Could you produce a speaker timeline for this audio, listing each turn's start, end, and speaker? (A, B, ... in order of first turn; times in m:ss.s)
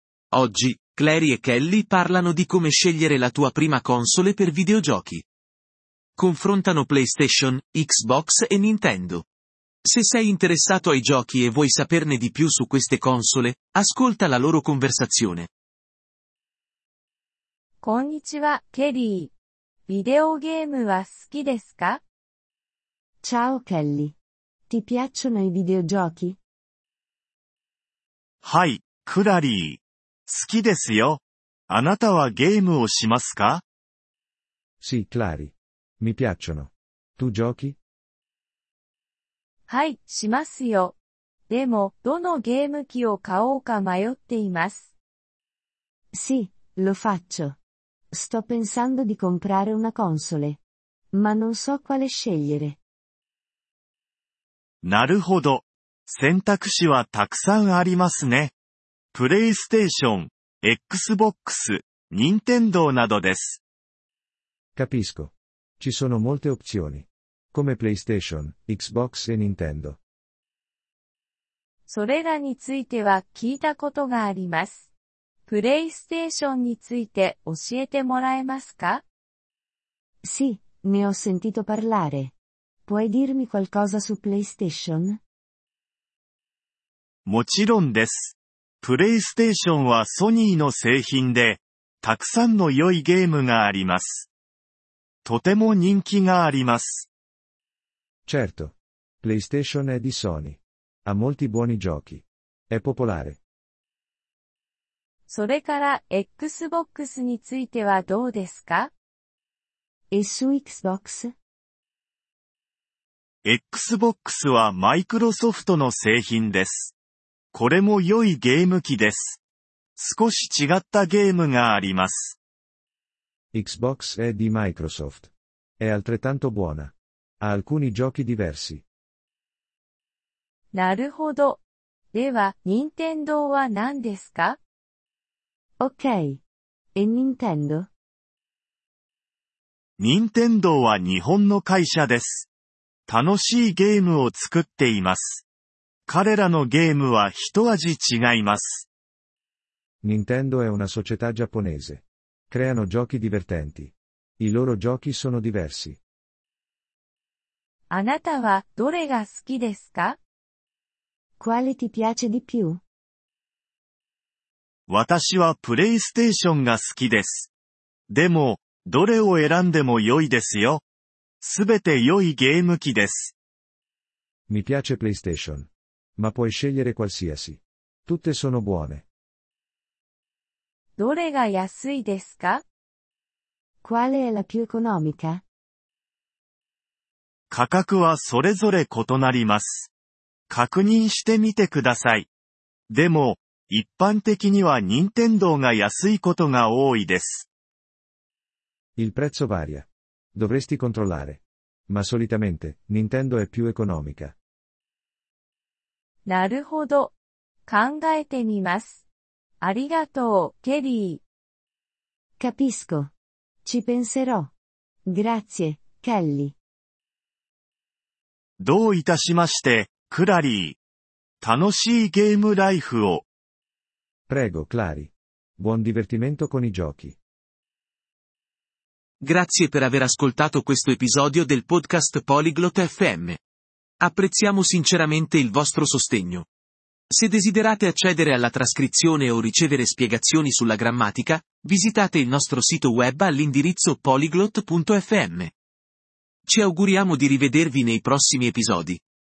0:00.3-0:05.2 A
0:06.2-0:09.2 A
0:09.8-0:15.5 A
0:17.8-0:19.3 B
0:19.9-0:22.0 B
0:23.2-0:24.1 C
0:24.7-0:26.4 C
0:28.4-0:33.6 D
0:34.8-0:37.8 E
0:39.7-0:41.0 B
0:41.5-0:44.9 B
0:46.1-0:47.6 C
0:48.1-0:50.6 C
0:51.1-0:52.8 C
0:54.8-0:58.5 D
0:59.1-1:03.6 D
1:04.8-1:10.0 E
1:11.9-1:14.9 B
1:15.5-1:19.0 B
1:20.2-1:22.3 C
1:22.9-1:25.2 C
1:27.2-1:34.3 D
1:35.2-1:37.1 D
1:38.2-1:43.4 E
1:45.3-1:48.9 B
1:50.1-1:51.3 C
1:53.4-1:56.9 D
1:57.5-1:59.4 D
2:00.0-2:02.4 D
2:03.5-2:08.8 E
2:10.7-2:14.6 B
2:15.8-2:16.4 C
2:16.9-2:17.9 C
2:20.0-2:22.5 D
2:23.1-2:25.4 D
2:26.1-2:28.9 D
2:30.0-2:36.0 E
2:37.9-2:40.2 B
2:41.4-2:42.8 C
2:44.9-2:47.5 D
2:48.1-2:50.8 D
2:51.4-2:53.3 D
2:54.5-2:59.0 E
3:01.0-3:02.6 B
3:03.8-3:05.4 C
3:07.5-3:09.9 D
3:10.5-3:12.3 D
3:12.9-3:17.5 D
3:19.0-3:24.4 E
3:26.2-3:27.1 B
3:27.7-3:29.0 B
3:29.6-3:31.2 B
3:32.4-3:33.1 C
3:33.6-3:34.5 C
3:35.0-3:36.5 C
3:38.6-3:40.8 D
3:41.4-3:43.2 D
3:44.3-3:47.2 E
3:49.2-3:53.4 A
3:54.0-3:56.5 A
3:57.1-4:05.5 A
4:06.4-4:09.0 A